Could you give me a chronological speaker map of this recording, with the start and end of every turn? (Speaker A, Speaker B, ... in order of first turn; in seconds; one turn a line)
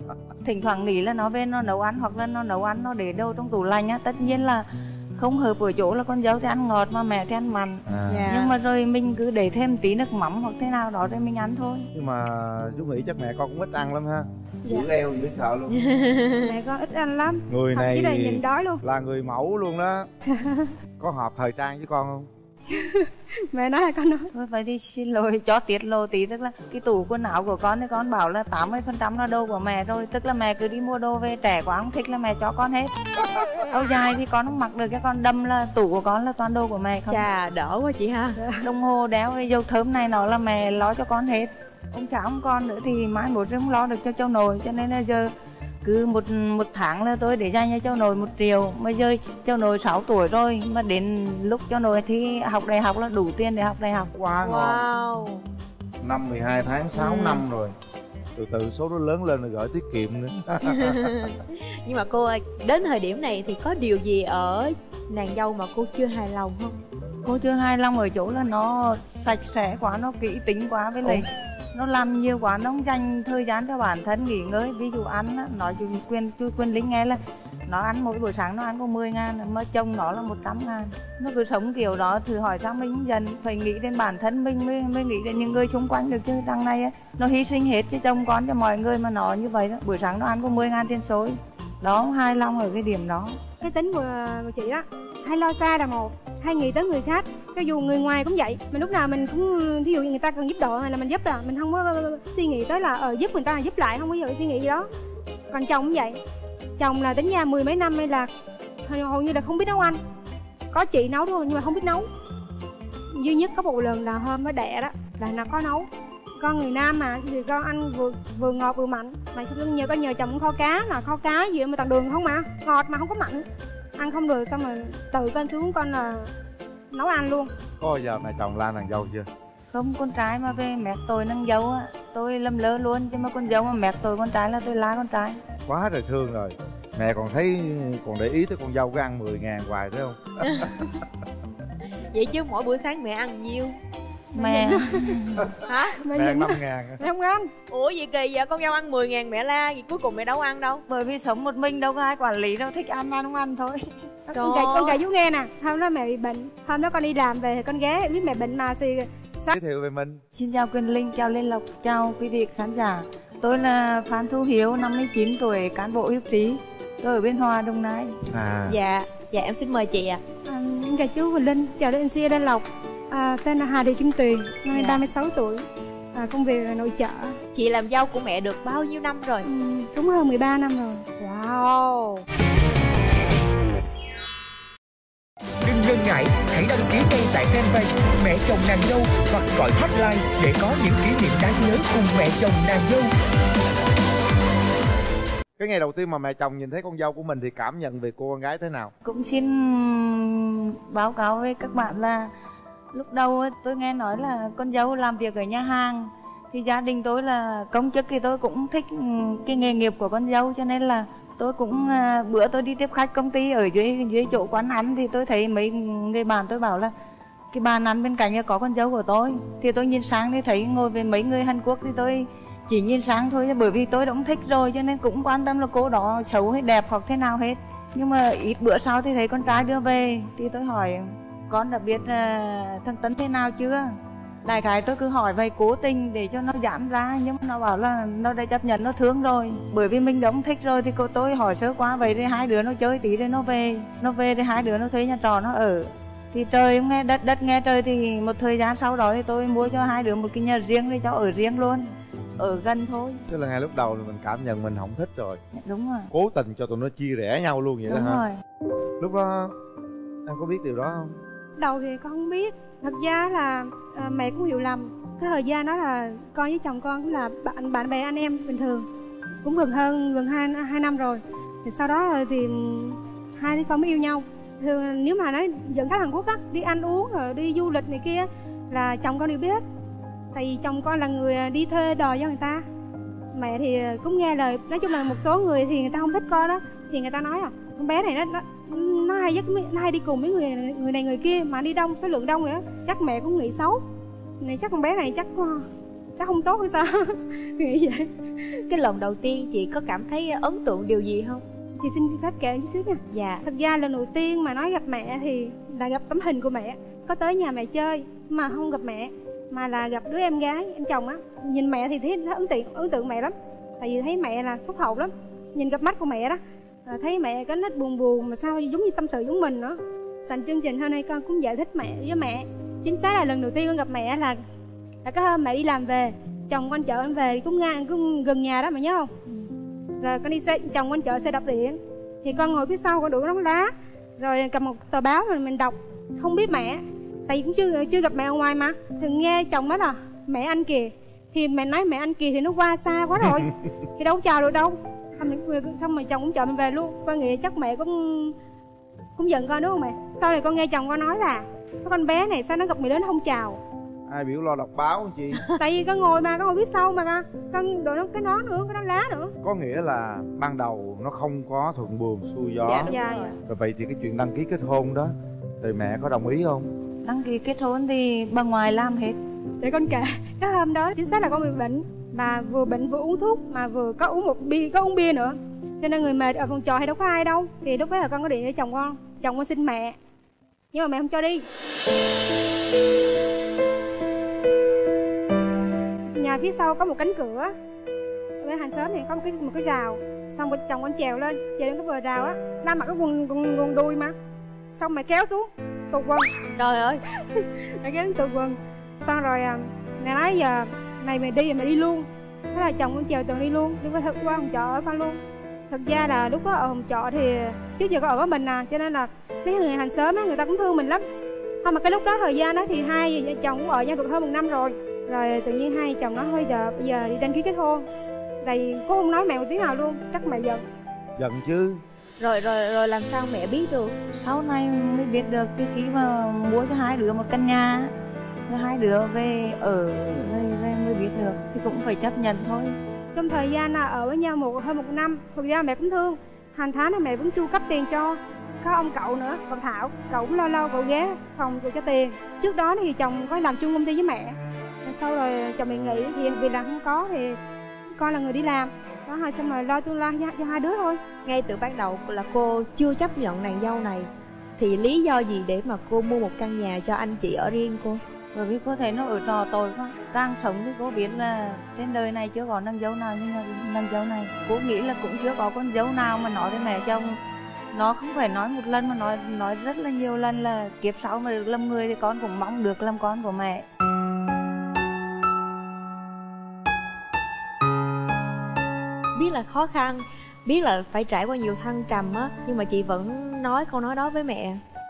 Speaker A: 0.4-4.7
Speaker A: 5.2-11.9
Speaker B: 7.9-8.2
Speaker C: 8.1-8.5
Speaker B: 11.9-15.8
Speaker C: 15.7-16.5
Speaker D: 16.4-18.8
Speaker B: 17.5-20.1
Speaker D: 20.3-20.7
Speaker B: 21.0-22.3
Speaker D: 22.7-24.3
Speaker A: 24.3-32.9
Speaker A: 33.7-37.2
Speaker C: 37.1-38.4
Speaker A: 38.6-45.3
Speaker A: 45.8-54.1
Speaker B: 54.1-54.9
Speaker C: 54.4-55.5
Speaker B: 56.0-57.7
Speaker C: 57.0-57.4
Speaker B: 58.4-61.2
Speaker C: 60.7-66.8
Speaker A: 67.2-93.4
Speaker D: 93.6-104.9
Speaker D: 105.5-106.2
Speaker D: 106.8-108.3
Speaker D: 108.8-110.0
Speaker D: 110.7-112.1
Speaker D: 113.1-115.9
Speaker D: 116.4-123.5
Speaker D: 124.0-126.3
Speaker D: 126.9-127.5
Speaker B: 127.8-129.3
Speaker A: 129.7-135.4
Speaker B: 135.7-140.8
Speaker C: 140.4-140.9
Speaker C: 142.1-143.8
Speaker D: 144.3-145.2
Speaker A: 144.3-145.5
Speaker C: 145.6-146.0
Speaker D: 145.9-147.5
Speaker B: 146.1-147.0
Speaker C: 147.7-150.8
Speaker A: 150.9-153.8
Speaker D: 154.3-159.5
Speaker C: 154.3-155.0
Speaker B: 159.5-160.2
Speaker A: 160.3-168.2
Speaker B: 168.3-168.8
Speaker C: 168.7-170.2
Speaker D: 170.4-177.3
Speaker C: 174.7-175.0
Speaker C: 177.5-179.5
Speaker D: 179.4-181.2
Speaker C: 181.2-182.2
Speaker E: 185.6-193.1
Speaker B: 195.6-198.9
Speaker A: 199.0-202.3
Speaker A: 202.9-216.9
Speaker A: 217.5-233.9
Speaker A: 234.4-251.9
Speaker A: 252.4-253.2
Speaker B: 253.3-255.4
Speaker A: 255.6-256.1
Speaker B: 256.1-258.2
Speaker A: 257.9-258.3
Speaker B: 259.0-259.6
Speaker B: 260.2-261.2
Speaker D: 261.6-268.9
Speaker D: 269.4-279.6
Speaker D: 280.3-282.6
Speaker D: 283.3-293.8
Speaker D: 294.4-298.6
Speaker C: 298.7-301.4
Speaker D: 301.8-324.4
Speaker C: 303.1-303.4
Speaker D: 325.1-329.1
Speaker D: 330.0-348.4
Speaker D: 349.2-353.6
Speaker B: 354.1-355.5
Speaker D: 355.6-359.3
Speaker B: 359.4-362.9
Speaker C: 362.6-363.3
Speaker D: 362.9-363.4
Speaker B: 363.5-366.7
Speaker A: 367.1-369.2
Speaker D: 369.6-380.0
Speaker D: 380.7-381.4
Speaker D: 386.2-387.5
Speaker D: 388.4-394.1
Speaker D: 394.8-396.2
Speaker C: 396.6-397.0
Speaker D: 397.1-405.2
Speaker D: 405.7-411.0
Speaker D: 411.6-417.9
Speaker D: 418.4-420.6
Speaker B: 421.2-421.8
Speaker C: 422.2-423.9
Speaker A: 424.1-427.9
Speaker A: 428.5-432.8
Speaker D: 433.1-447.4
Speaker D: 448.0-451.0
Speaker C: 451.2-458.0
Speaker A: 458.3-467.2
Speaker A: 467.7-473.6
Speaker C: 479.1-484.6